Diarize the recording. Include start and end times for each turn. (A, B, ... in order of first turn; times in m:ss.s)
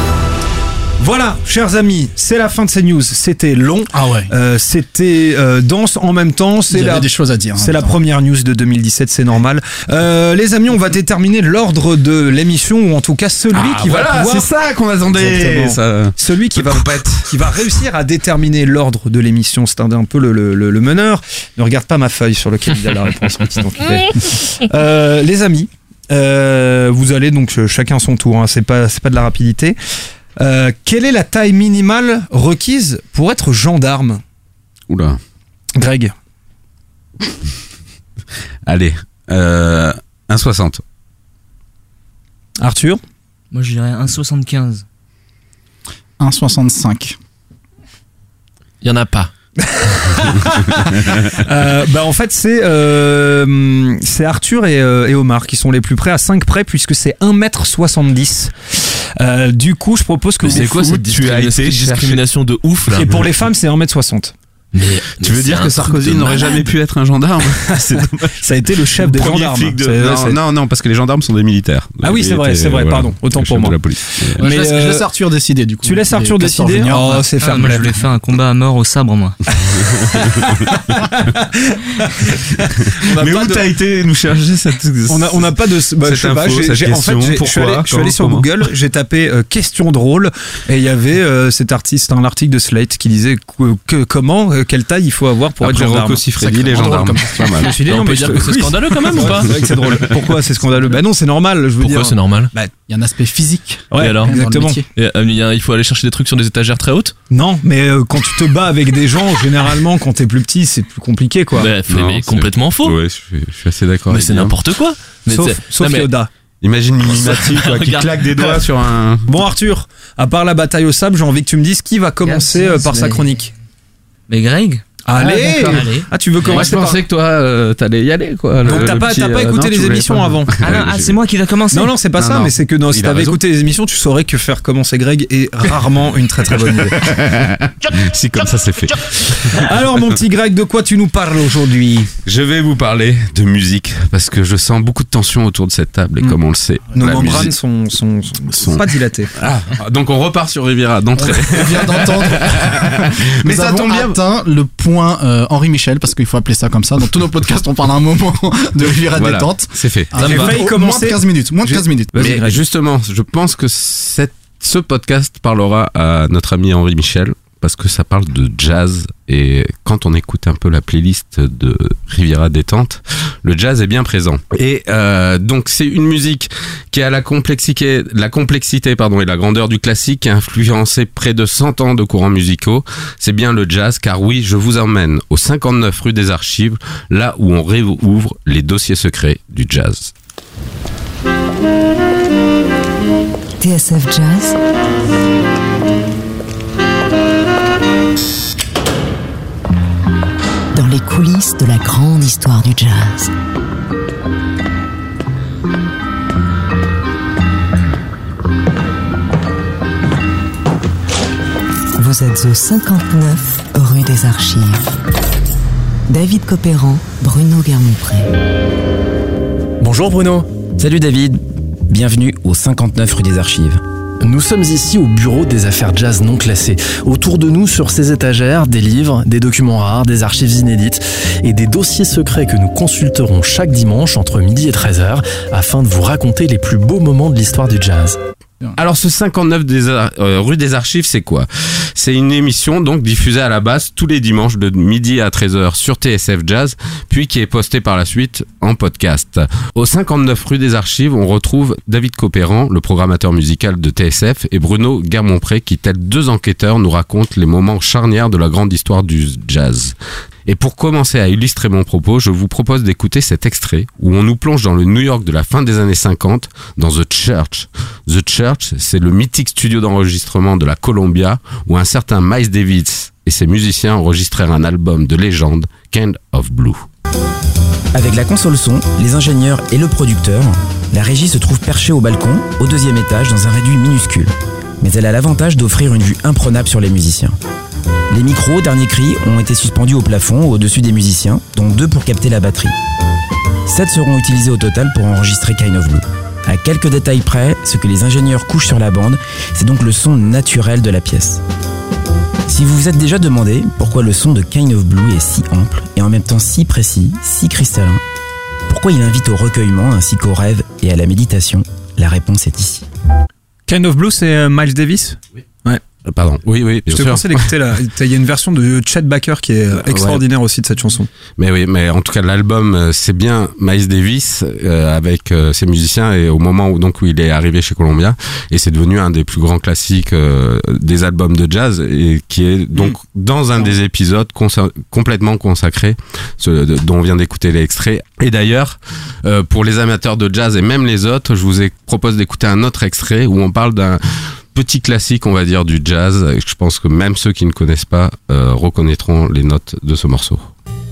0:01.0-0:14.5 A
0:03.9-0:04.3 B
0:06.7-0:08.0 B
0:13.5-0:17.4 C
0:15.1-0:29.8 A
0:30.4-0:34.2 A
0:34.9-0:35.2 C
0:35.8-0:36.1 A
0:38.6-0:40.8 C
0:42.6-0:43.0 A
0:43.5-0:44.8 D
0:46.2-0:47.2 B
0:48.8-0:49.3 E
0:49.6-1:00.7 A
1:00.4-1:03.2 E
1:00.4-1:02.2 C
1:03.0-1:04.3 A
1:03.0-1:03.2 C
1:04.7-1:06.7 E
1:05.2-1:14.5 C
1:08.4-1:10.4 A
1:12.0-1:15.1 A
1:14.4-1:17.3 B
1:15.8-1:17.9 A
1:17.4-1:19.4 D
1:19.7-1:23.6 A
1:20.2-1:20.5 C
1:22.8-1:25.5 C
1:25.1-1:36.2 A
1:26.0-1:28.5 C
1:35.6-1:40.1 C
1:36.4-1:37.7 B
1:37.4-1:42.7 A
1:37.9-1:39.5 E
1:41.8-1:42.5 E
1:42.9-1:44.9 B
1:43.9-1:44.8 A
1:43.9-1:44.3 E
1:44.9-1:47.1 E
1:47.3-1:51.7 A
1:51.6-1:53.0 E
1:51.9-1:54.6 C
1:54.1-1:56.1 E
1:55.3-1:56.3 A
1:56.6-1:59.2 C
1:57.0-1:58.7 E
1:59.3-2:03.5 A
2:02.2-2:03.3 D
2:04.3-2:06.7 D
2:05.0-2:07.0 A
2:06.4-2:11.2 C
2:08.6-2:10.5 A
2:10.6-2:12.0 D
2:11.7-2:17.2 A
2:12.2-2:13.4 C
2:16.9-2:19.7 C
2:19.5-2:22.1 A
2:22.2-2:27.5 C
2:26.9-2:29.3 A
2:28.5-2:34.2 C
2:31.2-2:42.3 B
2:39.1-2:40.1 C
2:40.2-2:42.6 A
2:40.2-2:40.5 E
2:42.2-3:10.1 C
3:13.6-3:14.6 F
3:20.7-3:23.3 F
3:32.0-3:34.9 F
3:36.1-3:38.3 F
3:39.8-3:40.5 G
3:40.8-3:43.8 H
3:44.2-3:58.2 G
3:58.8-4:20.0 C
4:20.5-4:36.8 C
4:37.9-4:47.4 H
4:48.1-4:52.8 H
4:53.6-5:01.4 H
5:02.5-5:08.0 H
5:08.7-5:12.8 H
5:13.7-5:15.8 A
5:16.0-5:17.5 C
5:16.9-5:21.1 A
5:19.8-5:20.2 C
5:21.4-5:44.0 C
5:44.5-5:50.5 C